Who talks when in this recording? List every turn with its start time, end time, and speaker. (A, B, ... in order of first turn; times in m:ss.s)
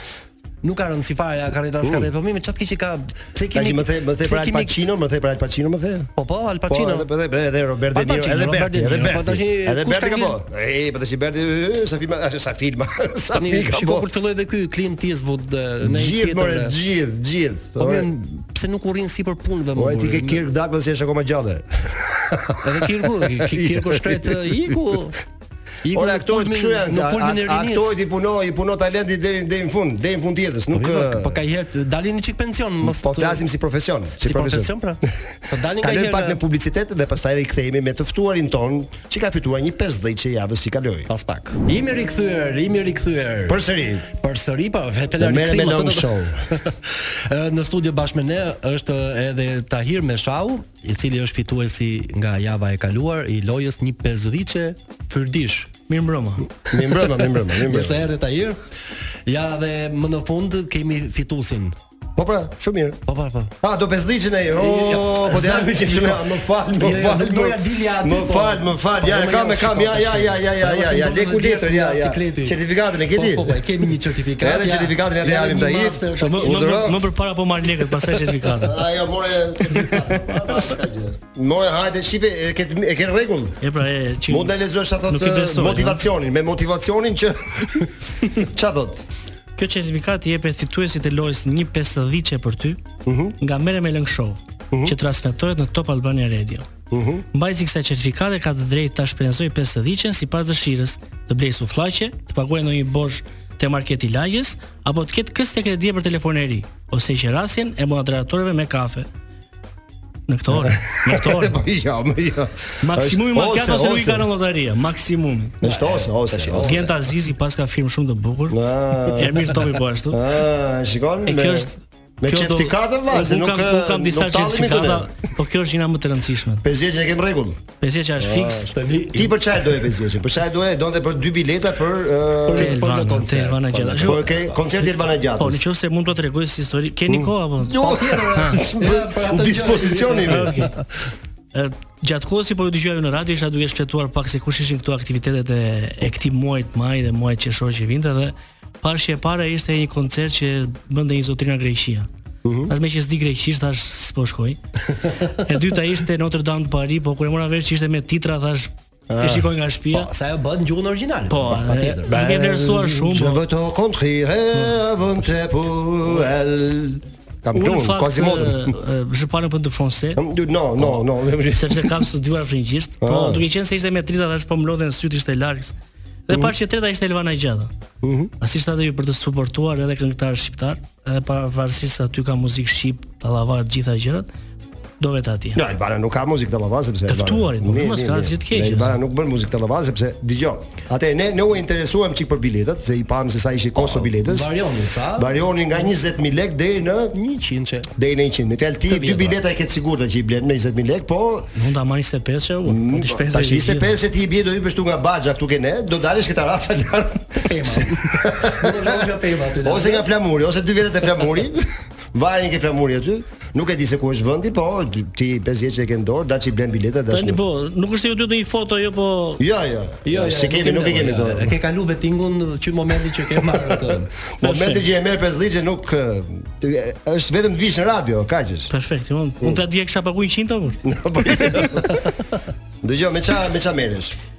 0:00.6-0:04.8 A
0:01.8-0:02.1 B
0:03.5-0:06.1 B
0:06.2-0:07.1 A
0:06.7-0:14.1 B
0:07.9-0:10.4 A
0:13.4-0:16.7 A
0:15.8-0:18.1 B
0:17.8-0:20.4 A
0:19.8-0:24.5 B
0:22.6-0:25.2 A
0:25.8-0:27.9 A
0:25.9-0:31.4 B
0:30.7-0:33.4 A
0:32.8-0:34.7 B
0:34.2-0:36.4 A
0:35.8-0:41.1 B
0:41.1-0:43.6 A
0:43.5-0:44.1 B
0:44.2-0:55.7 A
0:45.2-0:46.6 B
0:55.9-0:56.5 C
0:56.7-0:58.1 B
0:56.7-0:58.6 A
0:59.3-1:01.8 A
1:02.2-1:03.0 B
1:03.1-1:03.5 A
1:03.6-1:13.8 B
1:04.6-1:12.6 A
1:13.1-1:16.7 A
1:14.4-1:17.0 B
1:16.2-1:18.8 C
1:18.6-1:23.6 B
1:19.8-1:20.2 A
1:23.6-1:24.5 C
1:24.3-1:29.0 B
1:25.1-1:26.0 C
1:29.6-1:32.8 C
1:33.0-1:33.4 B
1:33.4-1:36.7 C
1:36.9-1:37.2 B
1:37.3-1:49.1 C
1:50.3-1:51.6 C
1:50.5-1:54.3 B
1:52.8-1:55.6 C
1:55.6-1:56.9 B
1:55.6-1:57.0 A
1:56.6-2:00.2 C
1:58.5-2:01.7 B
2:01.2-2:01.7 C
2:02.2-2:05.1 B
2:02.3-2:06.6 C
2:06.6-2:07.6 B
2:07.8-2:08.7 C
2:08.2-2:12.8 B
2:08.7-2:09.8 A
2:12.5-2:14.3 A
2:12.5-2:18.6 C
2:14.0-2:15.6 B
2:17.1-2:20.7 B
2:17.8-2:20.8 A
2:20.3-2:20.7 C
2:21.5-2:32.1 C
2:32.4-2:32.7 B
2:32.7-2:34.6 C
2:35.4-2:40.1 C
2:39.1-2:39.5 B
2:39.9-2:42.1 A
2:41.3-2:43.4 C
2:41.5-2:48.8 B
2:47.6-2:50.2 C
2:50.2-2:52.1 B
2:51.5-2:55.8 C
2:53.0-2:53.4 B
2:56.3-2:57.7 C
2:58.0-2:58.3 B
2:58.4-3:04.3 C
3:05.0-3:05.6 C
3:05.6-3:14.5 B
3:07.1-3:09.0 C
3:13.8-3:15.3 A
3:15.2-3:17.2 B
3:17.1-3:17.9 A
3:18.0-3:21.5 B
3:18.9-3:19.4 A
3:21.6-3:24.0 C
3:22.7-3:29.0 B
3:27.4-3:30.1 A
3:29.6-3:37.4 B
3:37.1-3:39.4 C
3:39.4-3:41.6 B
3:40.0-3:44.2 A
3:43.3-3:48.7 B
3:44.4-3:44.8 C
3:48.7-3:51.7 C
3:50.8-3:52.0 B
3:52.8-3:54.2 B